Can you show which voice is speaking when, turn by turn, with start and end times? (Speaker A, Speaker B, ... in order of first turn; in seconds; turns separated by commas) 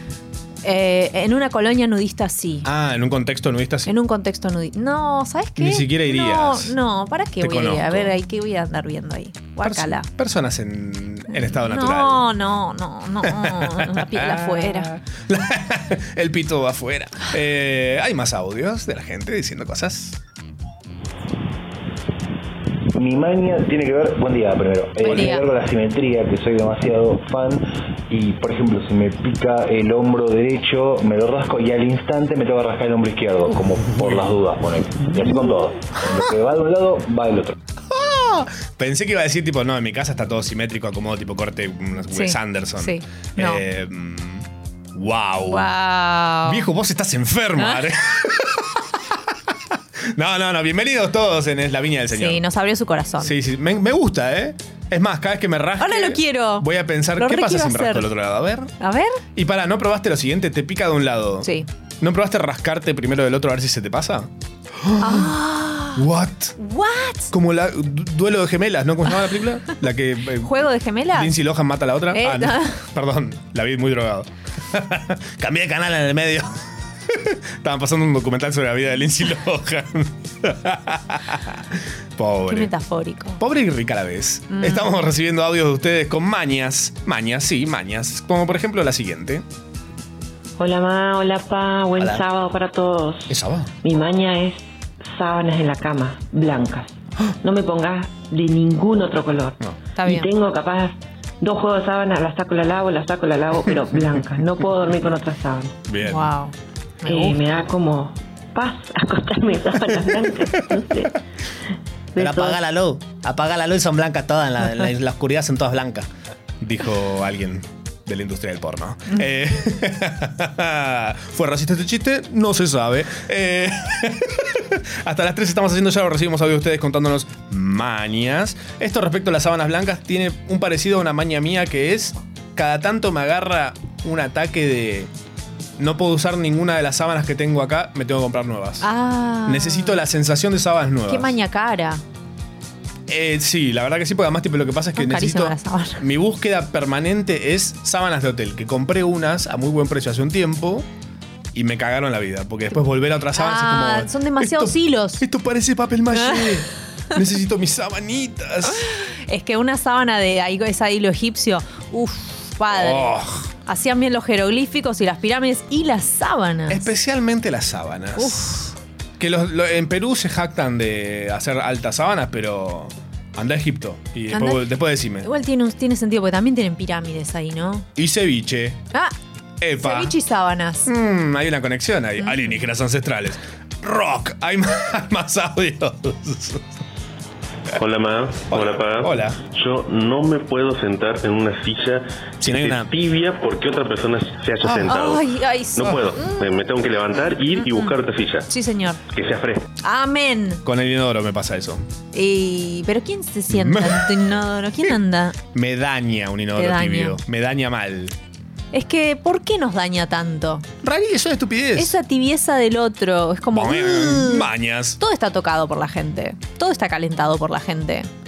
Speaker A: 0.6-2.7, Speaker B: 2.6-3.9, Speaker A: 3.9-10.1, Speaker B: 5.6-6.7, Speaker B: 7.4-8.1, Speaker B: 9.6-12.2, Speaker A: 11.3-14.9, Speaker B: 13.2-20.2, Speaker C: 22.9-37.6, Speaker B: 25.0-25.4, Speaker A: 25.1-25.4, Speaker B: 37.9-45.7, Speaker A: 42.1-43.6, Speaker A: 45.5-46.7, Speaker B: 46.5-48.6, Speaker B: 50.1-52.4, Speaker A: 52.1-53.3, Speaker B: 53.2-58.7, Speaker A: 55.8-58.1, Speaker A: 58.8-59.2, Speaker B: 59.4-61.5, Speaker B: 62.0-64.3, Speaker B: 64.8-65.3, Speaker A: 65.0-66.0, Speaker B: 66.0-66.5, Speaker A: 66.6-67.3, Speaker B: 67.3-70.5, Speaker A: 70.4-71.3, Speaker B: 71.2-76.5, Speaker A: 72.1-72.8, Speaker B: 77.2-81.6, Speaker B: 82.2-82.7, Speaker A: 82.5-83.4, Speaker B: 83.4-89.4, Speaker A: 84.5-84.9, Speaker D: 90.6-105.8, Speaker E: 92.0-92.2, Speaker E: 93.3-93.7, Speaker A: 100.0-100.3, Speaker B: 105.9-106.3, Speaker A: 106.0-107.4, Speaker D: 107.0-111.1, Speaker E: 112.2-116.1, Speaker D: 112.2-112.5, Speaker B: 116.6-135.1, Speaker B: 135.8-138.9, Speaker A: 138.8-140.0, Speaker B: 139.4-141.4, Speaker A: 141.1-142.0, Speaker B: 143.1-150.9, Speaker A: 145.0-146.0, Speaker B: 151.5-158.8, Speaker A: 153.4-155.2, Speaker A: 156.2-156.4, Speaker A: 158.7-166.9, Speaker B: 162.7-163.5, Speaker B: 166.7-168.4, Speaker A: 168.2-168.7, Speaker B: 169.2-175.3, Speaker A: 174.3-174.6, Speaker A: 175.2-177.9, Speaker B: 178.0-178.8, Speaker B: 179.6-180.1, Speaker A: 179.8-180.9, Speaker B: 180.9-186.7, Speaker A: 182.2-182.6, Speaker F: 187.8-195.2, Speaker B: 188.5-189.4, Speaker B: 192.4-192.9, Speaker B: 194.6-194.9, Speaker A: 194.9-196.5, Speaker F: 195.8-198.5, Speaker A: 197.5-198.0, Speaker A: 198.5-199.0, Speaker F: 199.1-199.7, Speaker A: 199.8-200.6, Speaker B: 200.7-201.8, Speaker A: 202.1-205.4, Speaker B: 203.5-204.2, Speaker B: 205.5-208.2, Speaker A: 206.6-207.2, Speaker A: 208.7-210.7, Speaker B: 210.8-212.0, Speaker A: 211.8-218.1, Speaker B: 213.5-215.0